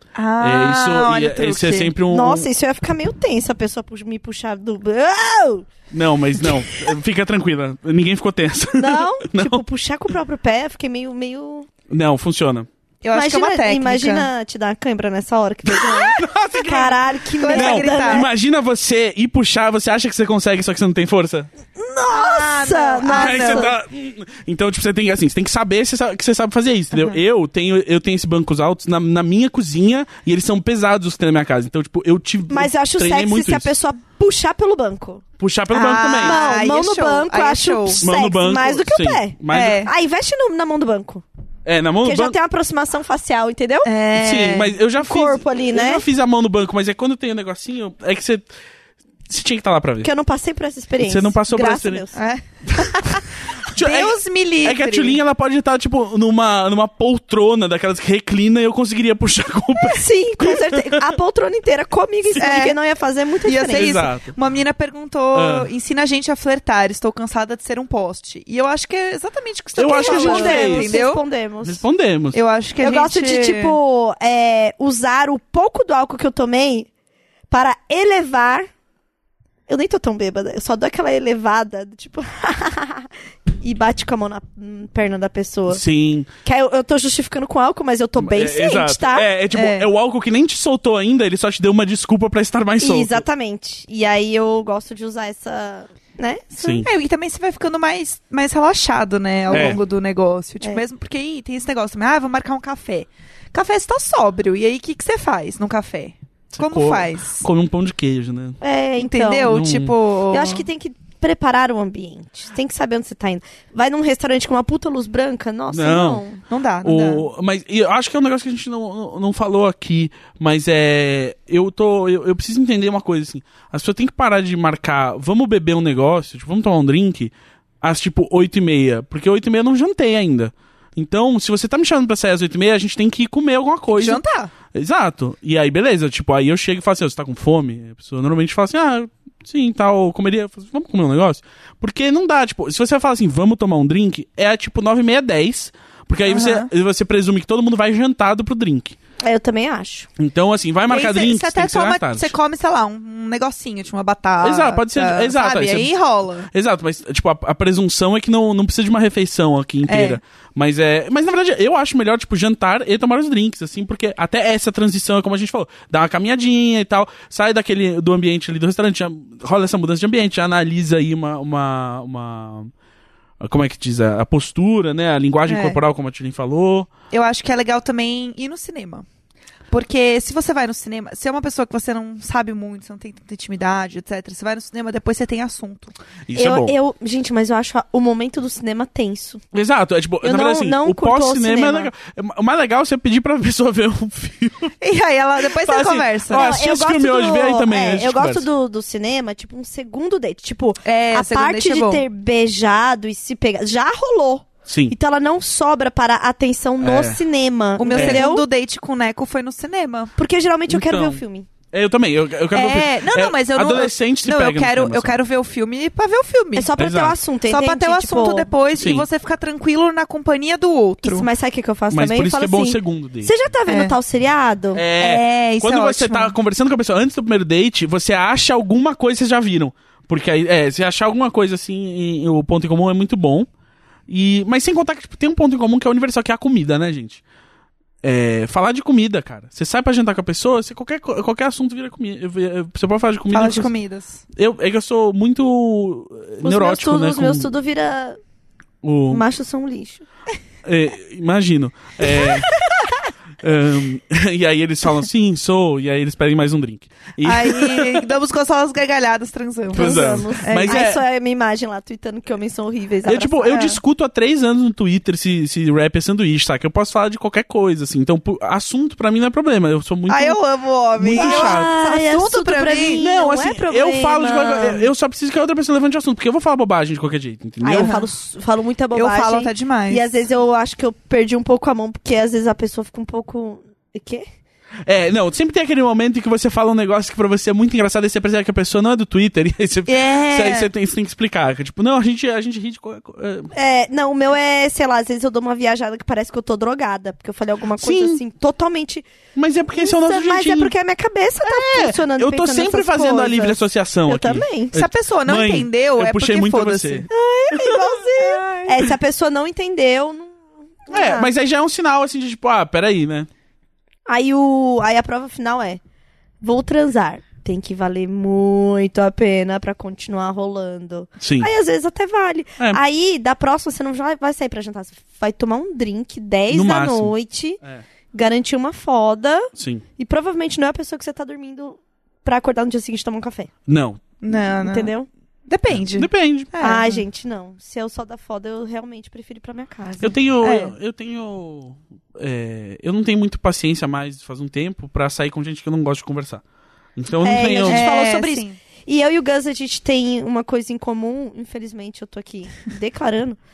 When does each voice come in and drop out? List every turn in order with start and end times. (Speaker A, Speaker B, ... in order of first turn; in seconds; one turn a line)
Speaker A: 0.1-1.9
Speaker B: 0.4-2.5
Speaker C: 2.1-5.7
Speaker B: 5.9-9.6
Speaker C: 8.8-11.7
Speaker B: 11.9-12.7
Speaker A: 13.0-14.3
Speaker C: 13.1-18.3
Speaker B: 15.7-21.5
Speaker A: 17.4-18.3
Speaker C: 21.8-23.7
Speaker A: 22.1-23.7
Speaker B: 23.1-33.7
Speaker A: 26.9-27.2
Speaker C: 32.5-35.2
Speaker B: 35.4-36.4
Speaker A: 35.7-38.0
Speaker C: 36.2-41.2
Speaker B: 38.0-39.9
Speaker A: 39.5-39.9
Speaker B: 41.6-42.4
Speaker C: 42.0-43.9
Speaker A: 43.8-44.8
Speaker B: 44.1-48.5
Speaker C: 45.0-46.0
Speaker B: 49.3-50.1
Speaker C: 50.0-52.1
Speaker B: 51.0-52.0
Speaker A: 52.1-53.2
Speaker B: 52.7-52.9
Speaker B: 53.7-61.1
Speaker A: 53.8-55.2
Speaker C: 59.8-63.9
Speaker A: 62.4-62.8
Speaker A: 63.4-71.2
Speaker B: 63.7-64.3
Speaker B: 65.3-65.7
Speaker B: 69.8-70.9
Speaker C: 69.9-71.8
Speaker B: 71.6-72.4
Speaker A: 72.3-73.8
Speaker C: 72.8-76.9
Speaker C: 77.5-78.7
Speaker C: 79.7-83.1
Speaker C: 83.6-85.8
Speaker B: 85.7-86.3
Speaker C: 86.4-89.3
Speaker B: 88.2-93.2
Speaker A: 89.5-89.9
Speaker C: 92.8-96.8
Speaker B: 96.6-96.9
Speaker A: 96.8-107.5
Speaker B: 99.5-99.8
Speaker B: 106.5-108.6
Speaker C: 108.6-109.5
Speaker A: 109.0-110.6
Speaker B: 109.5-109.9
Speaker C: 110.3-116.4
Speaker B: 115.7-116.2
Speaker A: 116.5-117.3
Speaker B: 116.8-149.0
Speaker A: 133.9-134.5
Speaker A: 146.3-146.7
Speaker C: 149.2-150.1
Speaker B: 150.2-152.3
Speaker A: 150.9-156.5
Speaker B: 154.4-155.9
Speaker B: 156.5-172.7
Speaker A: 159.9-160.2
Speaker B: 173.4-176.9
Speaker A: 175.5-175.8
Speaker A: 177.1-179.1
Speaker A: 179.7-185.9
Speaker B: 186.3-186.7
Speaker C: 186.3-189.4
Speaker B: 189.5-194.7
Speaker C: 190.2-191.9
Speaker A: 194.8-196.4
Speaker B: 195.4-198.4
Speaker C: 196.3-208.4
Speaker A: 200.8-202.0
Speaker B: 204.7-204.9
Speaker B: 206.8-207.2
Speaker A: 207.8-210.1
Speaker B: 207.9-208.2
Speaker C: 210.2-211.5
Speaker B: 210.7-211.2
Speaker B: 211.7-215.2
Speaker A: 212.5-216.7
Speaker C: 216.6-218.5
Speaker B: 216.8-217.2
Speaker A: 217.5-221.3
Speaker B: 218.8-219.1
Speaker C: 221.0-224.9
Speaker B: 221.9-223.3
Speaker A: 223.7-223.9
Speaker B: 224.7-233.5
Speaker A: 225.0-226.3
Speaker B: 234.1-237.2
Speaker B: 238.0-243.7
Speaker A: 243.3-244.2
Speaker B: 244.3-247.5
Speaker C: 246.4-248.2
Speaker B: 248.8-249.2
Speaker C: 249.1-250.0
Speaker B: 250.6-252.5
Speaker B: 253.4-258.1
Speaker A: 257.2-260.8
Speaker B: 259.7-261.0
Speaker C: 259.7-263.6
Speaker B: 263.0-270.4
Speaker A: 263.4-263.8
Speaker A: 270.1-273.0
Speaker B: 271.0-271.7
Speaker C: 271.1-274.9
Speaker B: 273.0-277.9
Speaker C: 277.6-284.2
Speaker A: 277.7-278.1
Speaker A: 278.9-280.1
Speaker B: 284.9-293.5
Speaker A: 289.9-290.7
Speaker C: 293.5-299.1
Speaker B: 297.8-298.2
Speaker B: 299.4-300.7
Speaker C: 299.7-304.7
Speaker B: 301.4-307.9
Speaker A: 304.7-307.1
Speaker C: 307.1-311.3
Speaker A: 308.3-308.7
Speaker B: 310.9-313.3
Speaker C: 314.1-315.8
Speaker C: 316.4-327.6
Speaker B: 321.2-321.5
Speaker B: 326.5-327.8
Speaker C: 328.1-333.5
Speaker B: 329.5-329.8
Speaker B: 333.7-334.0
Speaker A: 334.2-334.9
Speaker C: 334.3-335.1
Speaker A: 335.5-337.0
Speaker B: 335.7-336.5
Speaker C: 336.6-340.1
Speaker B: 340.0-346.4
Speaker A: 340.4-340.7
Speaker B: 346.9-347.9
Speaker C: 347.2-353.4
Speaker A: 347.6-348.6